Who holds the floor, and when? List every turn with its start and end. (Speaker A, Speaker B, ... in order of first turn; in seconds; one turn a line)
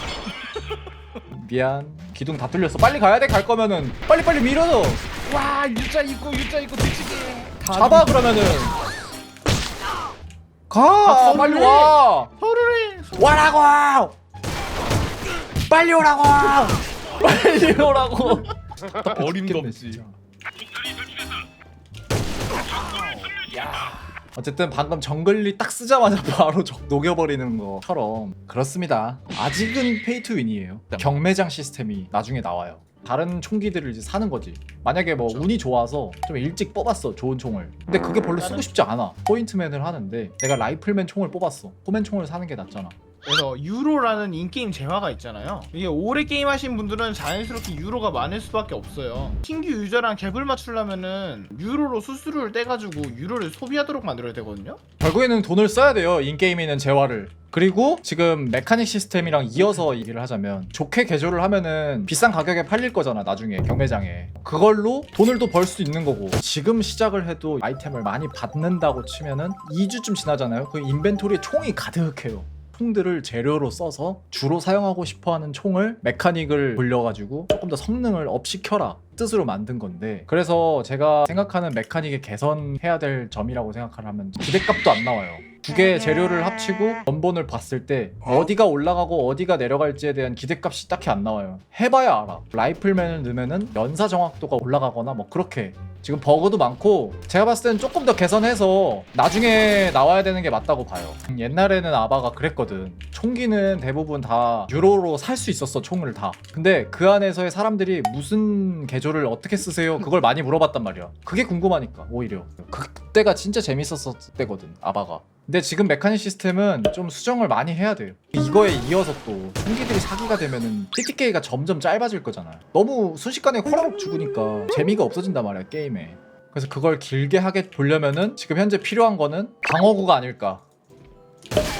Speaker A: 1.3-5.0
Speaker B: 5.3-8.1
Speaker A: 7.7-8.7
Speaker A: 10.7-12.3
Speaker C: 11.0-13.3
Speaker A: 13.2-14.1
Speaker A: 15.7-20.2
Speaker B: 17.6-18.1
Speaker B: 19.0-20.0
Speaker A: 24.3-42.9
Speaker C: 38.4-38.7
Speaker C: 43.2-54.8
Speaker A: 55.0-130.6